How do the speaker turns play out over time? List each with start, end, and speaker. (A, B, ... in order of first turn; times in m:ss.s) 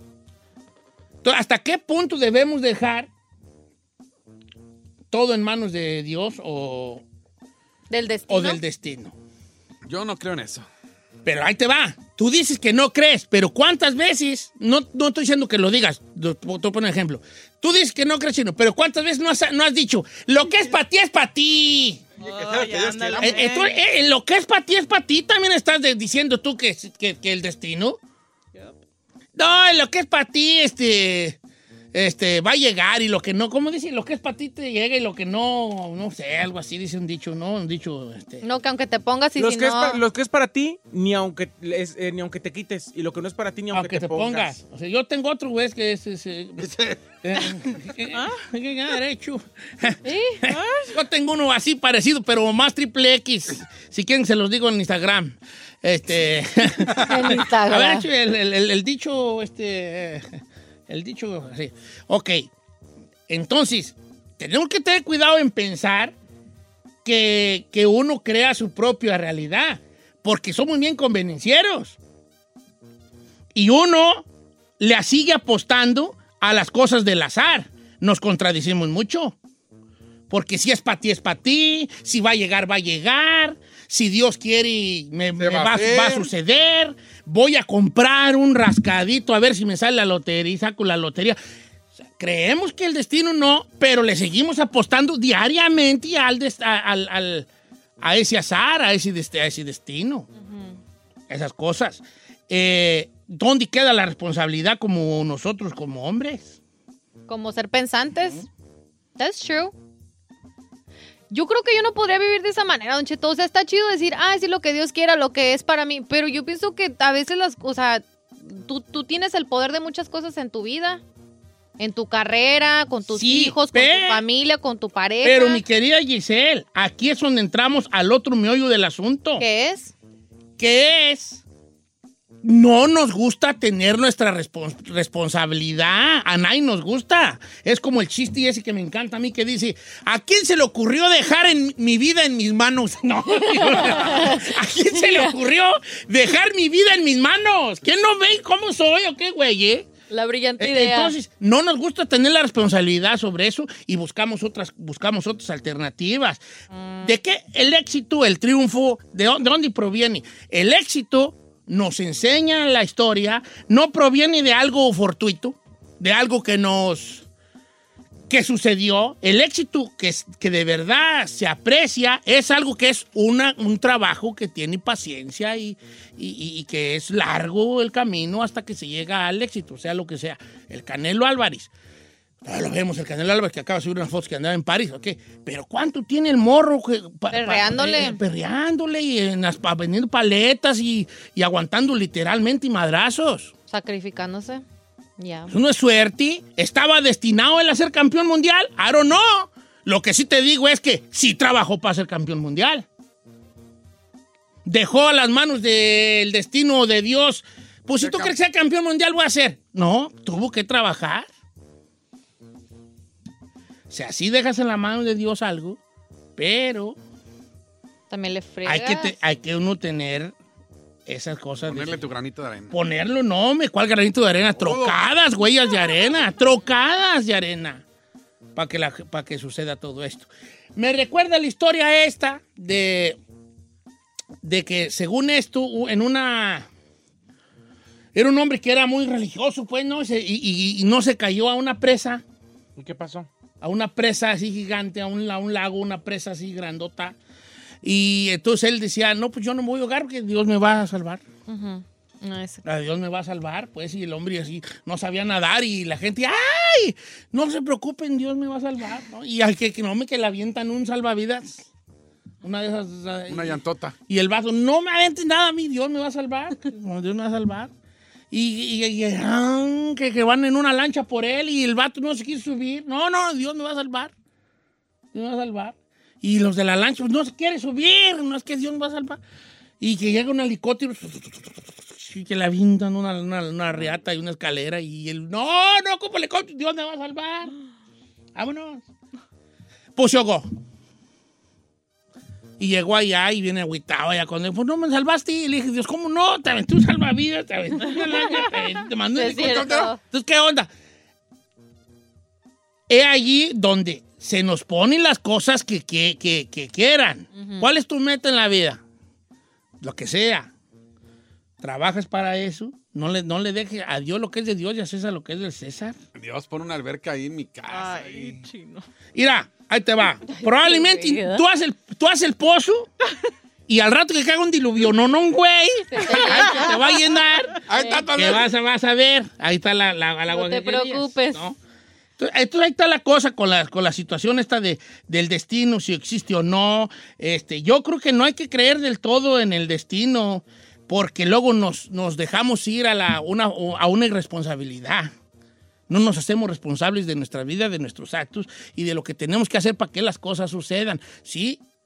0:01.2-0:03.1 A
0:05.1-0:07.0 A
0:07.9-0:08.6 B
0:08.3-0:09.2 A
0:09.9-0:10.7 C
0:11.2-0:22.0 A
0:22.2-0:23.5 C
0:22.2-0:23.8 D
0:23.2-0:28.0 A
0:29.4-0:31.4 A
0:31.9-0:38.4 A
0:38.4-0:40.0 B
0:39.4-0:44.6 E
0:43.7-0:46.7 A
0:46.7-0:47.0 C
0:47.2-1:00.3 A
0:48.1-0:48.4 D
0:50.0-0:50.4 B
0:50.5-0:51.0 D
0:56.8-0:58.0 B
1:00.9-1:02.5 A
1:03.3-1:06.1 A
1:07.0-1:12.0 A
1:13.5-1:14.3 A
1:14.8-1:19.4 A
1:20.3-1:31.4 A
1:25.4-1:26.3 C
1:32.2-1:37.5 A
1:38.0-1:40.3 A
1:40.4-1:40.8 B
1:41.3-1:46.6 A
1:47.3-1:48.4 B
1:49.2-1:49.7 B
1:51.3-2:01.0 B
2:01.8-2:05.6 B
2:03.1-2:04.2 A
2:05.2-2:09.4 A
2:09.4-2:09.9 B
2:10.6-2:11.4 A
2:12.4-2:29.9 A
2:23.5-2:25.3 B
2:30.1-2:31.2 B
2:30.6-2:36.4 A
2:36.7-2:37.1 B
2:37.0-2:47.2 A
2:48.3-3:01.7 A
3:02.4-3:13.5 A
3:07.3-3:08.2 B
3:13.7-3:14.6 B
3:15.2-3:15.5 B
3:15.5-3:22.9 A
3:24.6-3:31.3 A
3:28.0-3:28.3 C
3:33.9-3:35.8 A
3:36.4-3:37.0 A
3:38.1-3:39.1 B
3:38.6-3:40.4 A
3:41.1-3:42.0 A
3:41.7-3:42.7 C
3:42.7-3:47.8 A
3:44.6-3:45.0 C
3:48.6-3:53.2 A
3:54.4-3:56.7 A
3:58.2-4:02.2 A
4:02.8-4:03.3 E
4:03.6-4:07.2 A
4:07.8-4:11.2 A
4:11.5-4:12.6 B
4:12.6-4:21.7 A
4:22.4-4:27.7 A
4:23.3-4:24.0 C
4:28.3-4:34.1 A
4:35.1-4:39.2 A
4:39.8-4:47.5 A
4:48.4-4:48.8 A
4:50.0-4:50.5 A
4:52.6-5:00.7 A
4:59.2-5:00.0 B
4:59.3-4:59.7 C
5:02.9-5:08.8 A
5:07.4-5:07.7 B
5:09.8-5:10.5 A
5:11.6-5:16.0 A
5:16.2-5:18.4 C
5:17.7-5:18.8 D
5:19.2-5:22.9 A
5:20.3-5:21.4 B
5:23.7-5:27.6 A
5:25.9-5:26.8 B
5:27.6-5:28.5 C
5:27.7-5:28.1 B
5:28.1-5:31.6 A
5:30.3-5:31.4 B
5:32.2-5:45.1 A
5:45.9-5:51.6 A